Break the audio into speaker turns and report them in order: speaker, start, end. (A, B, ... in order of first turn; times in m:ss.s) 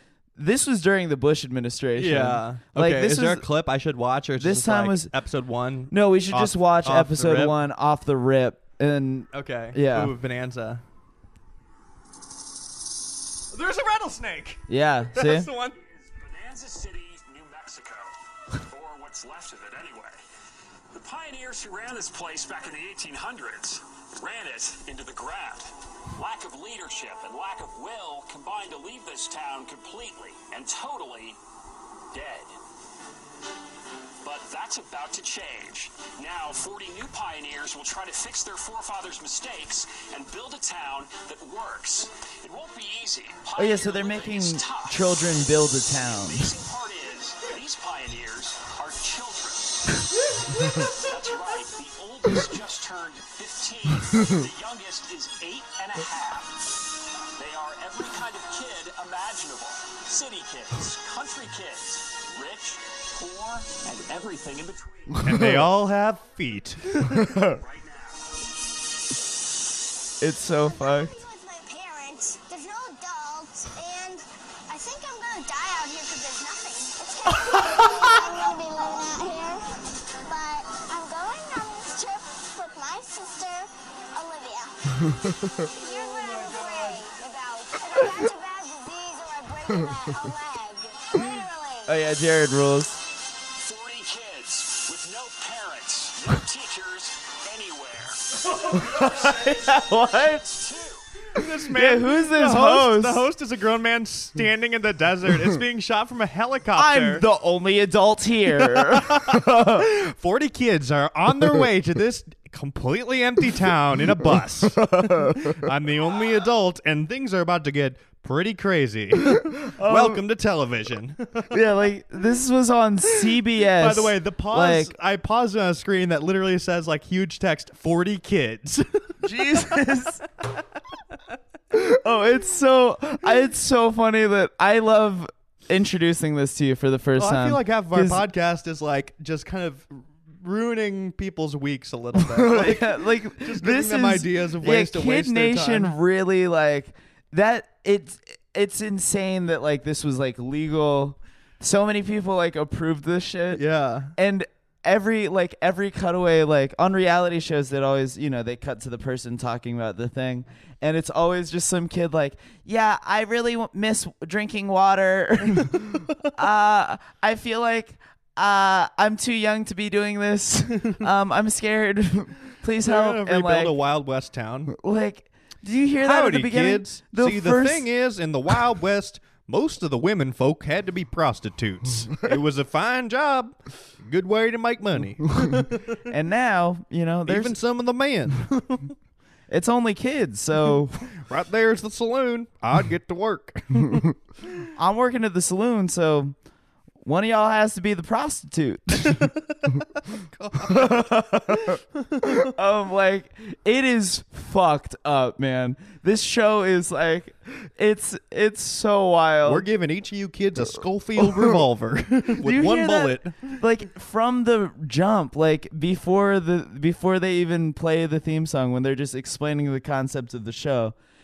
0:00.4-0:03.4 A
0:02.0-0:07.6 B
0:04.4-0:05.1 A
0:05.9-0:10.1 A
0:09.3-0:10.8 B
0:13.5-0:15.8 B
0:14.7-0:15.5 A
0:15.8-0:20.2 C
0:20.9-0:31.4 C
0:32.1-0:32.6 C
0:34.2-0:56.7 C
0:43.6-0:46.5 A
0:57.4-1:05.5 C
1:05.2-1:07.4 B
1:07.3-1:07.6 A
1:07.4-1:08.3 C
1:10.2-1:11.1 A
1:10.5-1:19.7 D
1:20.2-1:32.0 D
1:25.8-1:27.0 B
1:31.8-1:33.0 A
1:33.5-1:41.1 C
1:38.5-1:40.6 A
1:41.3-1:47.2 B
1:41.7-1:43.2 A
1:46.7-1:49.8 A
1:48.6-2:01.6 B
1:54.8-1:55.5 A
1:59.6-2:00.2 A
2:01.5-2:04.9 A
2:03.1-2:10.0 B
2:09.2-2:10.2 A
2:11.7-2:18.2 A
2:17.2-2:26.0 B
2:22.1-2:33.6 A
2:33.5-2:34.1 B
2:34.1-2:53.8 A
2:52.8-2:54.7 B
2:54.7-2:57.9 A
2:56.0-3:06.0 B
3:06.1-3:07.6 A
3:07.3-3:08.9 B
3:09.5-3:11.0 A
3:11.0-3:14.2 B
3:14.8-3:16.3 A
3:17.0-3:19.3 A
3:19.1-3:22.5 B
3:20.6-3:29.7 A
3:29.4-3:33.6 B
3:32.4-3:41.0 A